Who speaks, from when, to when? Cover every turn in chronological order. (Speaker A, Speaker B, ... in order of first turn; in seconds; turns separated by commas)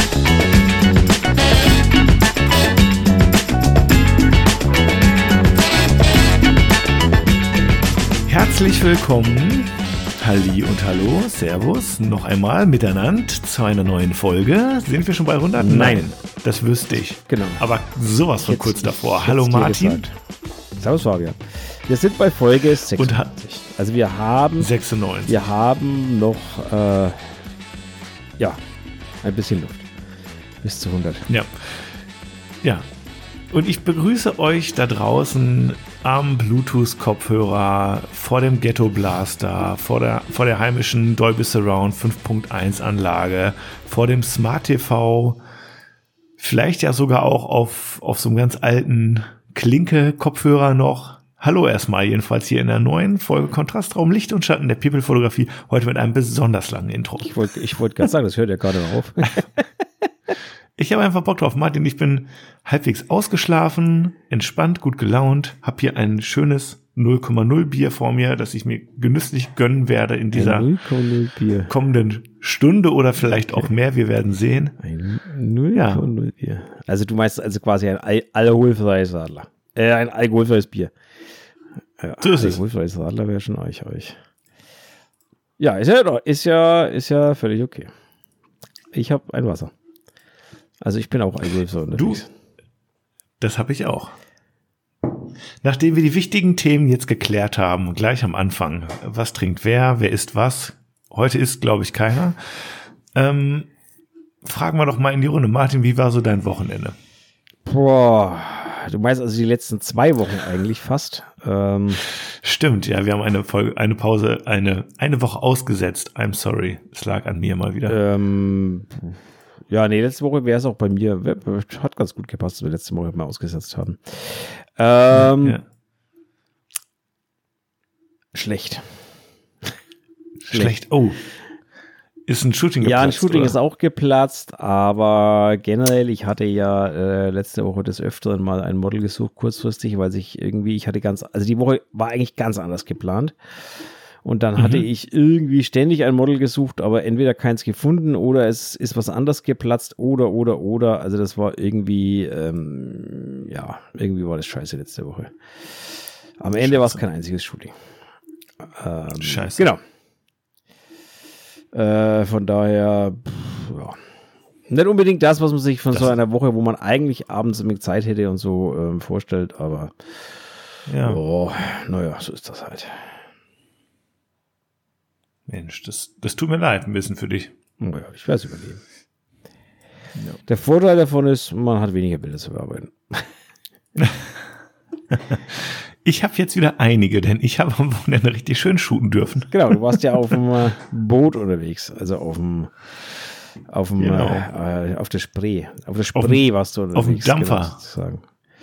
Speaker A: 8.3-20.0, Speaker B: 15.6-16.1, Speaker B: 17.3-17.6, Speaker B: 18.5-20.1, Speaker B: 20.8-24.7, Speaker A: 22.9-23.4, Speaker A: 24.6-25.4, Speaker B: 25.3-27.4, Speaker B: 29.2-29.9, Speaker B: 30.6-31.2, Speaker A: 31.3-32.0, Speaker A: 33.5-45.4, Speaker A: 46.4-57.4, Speaker B: 57.2-59.8, Speaker A: 60.8-70.7, Speaker B: 70.3-71.7, Speaker A: 71.7-74.8, Speaker B: 73.3-73.7, Speaker B: 74.8-80.9, Speaker A: 75.7-76.1, Speaker B: 82.0-84.2, Speaker A: 82.2-82.6, Speaker B: 85.6-87.9, Speaker B: 88.9-89.7, Speaker B: 90.8-92.3, Speaker A: 91.9-92.2, Speaker A: 93.4-94.2, Speaker A: 95.6-102.4, Speaker A: 103.1-103.7, Speaker A: 104.4-107.0, Speaker B: 107.7-112.0, Speaker A: 112.0-118.0, Speaker B: 117.9-119.2, Speaker B: 119.7-125.6, Speaker A: 125.1-125.6, Speaker B: 128.3-128.9, Speaker A: 130.4-131.2, Speaker A: 132.3-133.6, Speaker B: 132.8-157.8, Speaker A: 144.6-144.8, Speaker A: 156.6-157.0, Speaker B: 158.6-159.8, Speaker A: 159.2-159.7, Speaker B: 161.7-164.0, Speaker B: 164.7-170.4, Speaker A: 170.9-171.2, Speaker B: 171.0-173.2, Speaker A: 175.5-177.5, Speaker B: 177.8-178.8, Speaker B: 180.5-183.3, Speaker A: 185.2-190.3, Speaker B: 189.5-192.7, Speaker B: 193.7-198.2, Speaker A: 194.0-194.5, Speaker A: 196.2-196.4, Speaker A: 196.9-197.8